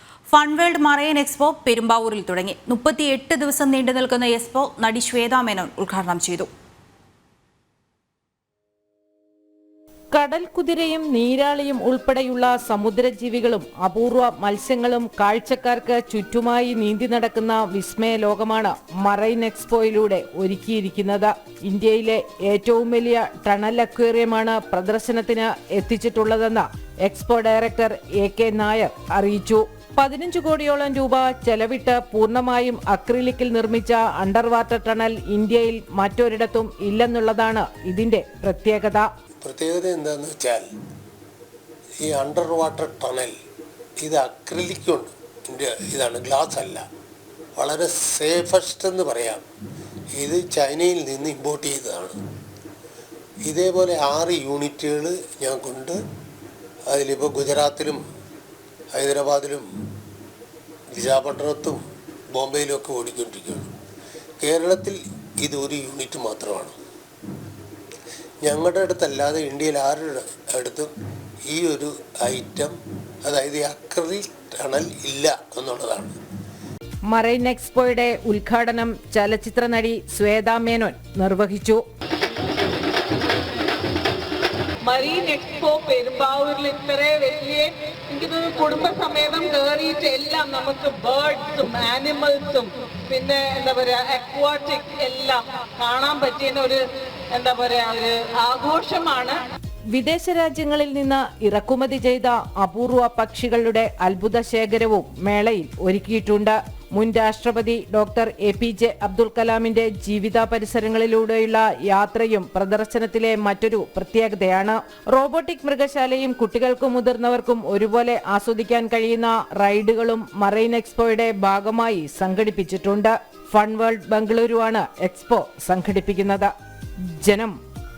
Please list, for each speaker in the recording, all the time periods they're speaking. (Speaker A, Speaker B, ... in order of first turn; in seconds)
Speaker A: 0.3-6.5
Speaker B: 10.1-39.1, 77.1-81.8, 99.9-126.5, 127.1-127.5
Speaker C: 39.4-40.6, 42.1-43.3, 44.0-46.8, 47.6-49.4, 50.2-52.2, 53.5-56.0, 56.9-58.0, 58.9-59.7, 60.9-61.8, 62.3-63.7, 64.4-66.8, 68.4-70.9, 71.5-76.2
Speaker D: 84.8-96.8, 97.3-99.4